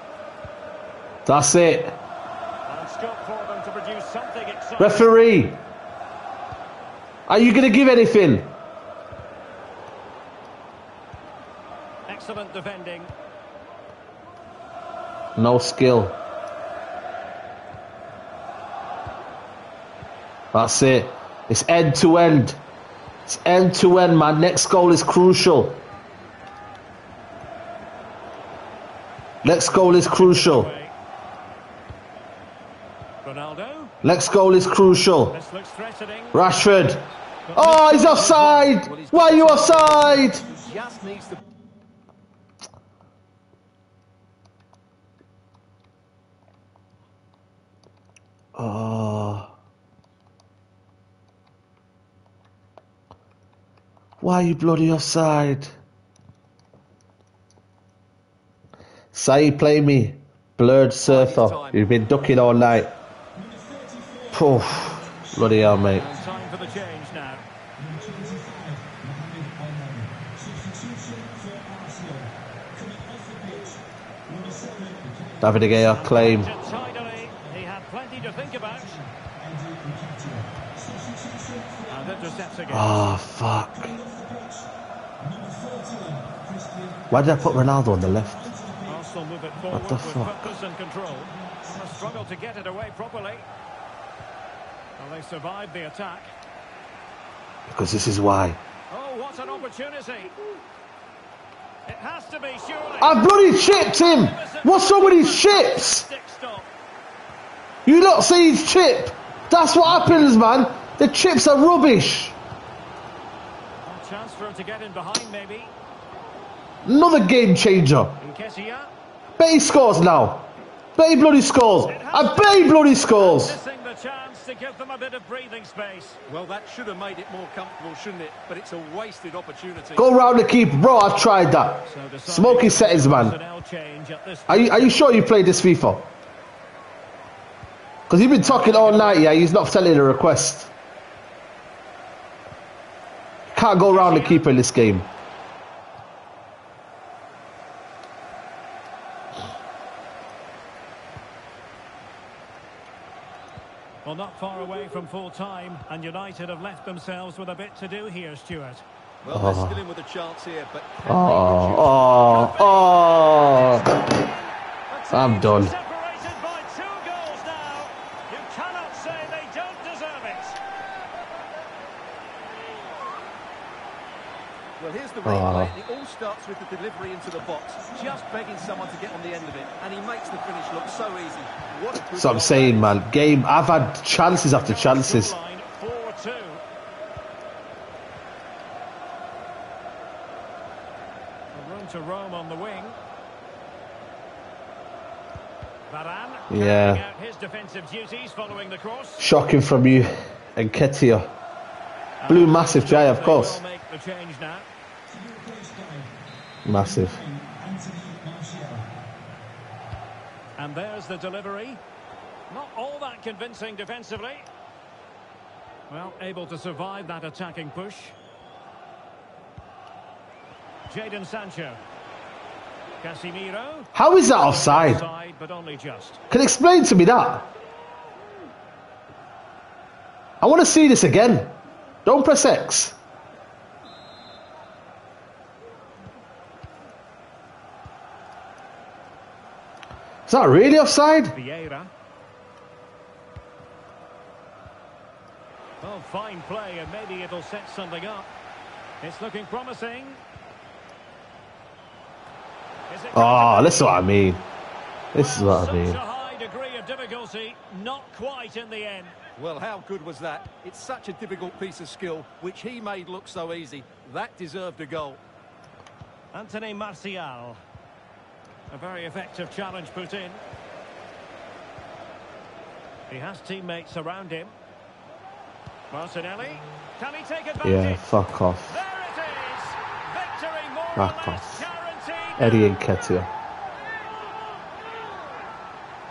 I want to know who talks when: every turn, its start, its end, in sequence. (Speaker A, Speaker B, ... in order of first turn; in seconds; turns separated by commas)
Speaker A: 1.3-1.9, Speaker B: 2.7-5.1, Speaker A: 4.8-5.6, Speaker A: 7.3-8.5, Speaker B: 12.1-13.1, Speaker A: 15.4-16.2, Speaker A: 20.5-22.6, Speaker A: 23.3-25.8, Speaker A: 29.4-30.7, Speaker B: 29.5-30.9, Speaker B: 33.2-33.9, Speaker A: 34.0-35.4, Speaker B: 35.3-36.4, Speaker A: 36.3-40.4, Speaker B: 37.5-38.8, Speaker C: 38.8-41.4, Speaker D: 39.9-41.5, Speaker A: 48.5-49.5, Speaker A: 54.2-55.7, Speaker A: 59.1-62.9, Speaker C: 61.0-62.1, Speaker D: 63.4-67.1, Speaker A: 64.3-66.1, Speaker B: 65.9-67.5, Speaker D: 67.8-76.8, Speaker A: 75.4-76.5, Speaker B: 75.9-79.0, Speaker D: 77.4-82.9, Speaker B: 81.9-83.2, Speaker A: 82.7-84.0, Speaker D: 83.7-89.7, Speaker A: 87.1-88.5, Speaker B: 88.9-93.5, Speaker A: 89.7-90.5, Speaker D: 91.0-92.2, Speaker B: 95.0-96.3, Speaker A: 97.7-98.6, Speaker B: 98.9-100.3, Speaker B: 101.9-106.7, Speaker A: 103.0-106.1, Speaker A: 107.9-112.3, Speaker B: 109.8-110.4, Speaker B: 113.8-115.7, Speaker A: 116.8-118.2, Speaker B: 118.2-118.9, Speaker A: 119.4-123.6, Speaker B: 121.9-126.2, Speaker C: 126.3-130.1, Speaker A: 130.0-133.4, Speaker B: 131.9-135.0, Speaker A: 134.5-136.1, Speaker A: 138.1-140.7, Speaker B: 138.4-139.3, Speaker A: 143.5-145.1, Speaker B: 143.8-144.5, Speaker B: 154.1-158.8, Speaker C: 159.2-161.9, Speaker A: 159.3-159.8, Speaker A: 161.1-164.0, Speaker B: 161.9-170.6, Speaker A: 165.1-165.7, Speaker C: 174.8-183.0, Speaker A: 175.2-175.7, Speaker D: 177.9-178.7, Speaker A: 182.2-185.3, Speaker B: 184.5-186.6, Speaker B: 191.5-193.0, Speaker B: 195.9-199.2, Speaker A: 196.5-197.0, Speaker A: 199.2-201.3, Speaker B: 202.2-204.7, Speaker A: 202.3-203.6, Speaker D: 205.1-208.9, Speaker A: 206.7-207.2, Speaker B: 210.6-211.8, Speaker B: 212.5-214.5, Speaker B: 215.9-218.2, Speaker B: 220.9-221.8, Speaker B: 223.0-226.2, Speaker A: 223.9-225.0, Speaker A: 226.3-227.5, Speaker A: 230.4-231.5, Speaker A: 232.1-233.0, Speaker A: 240.3-241.3, Speaker B: 241.3-241.9, Speaker B: 245.8-248.3, Speaker B: 249.0-250.2, Speaker B: 252.9-254.1, Speaker A: 253.1-254.4, Speaker A: 255.1-256.0, Speaker B: 255.2-259.1, Speaker C: 259.4-265.2, Speaker B: 266.3-267.6, Speaker B: 268.7-270.4, Speaker B: 273.1-274.6, Speaker B: 275.9-282.8, Speaker A: 277.6-278.8, Speaker A: 281.0-281.6, Speaker A: 282.4-283.3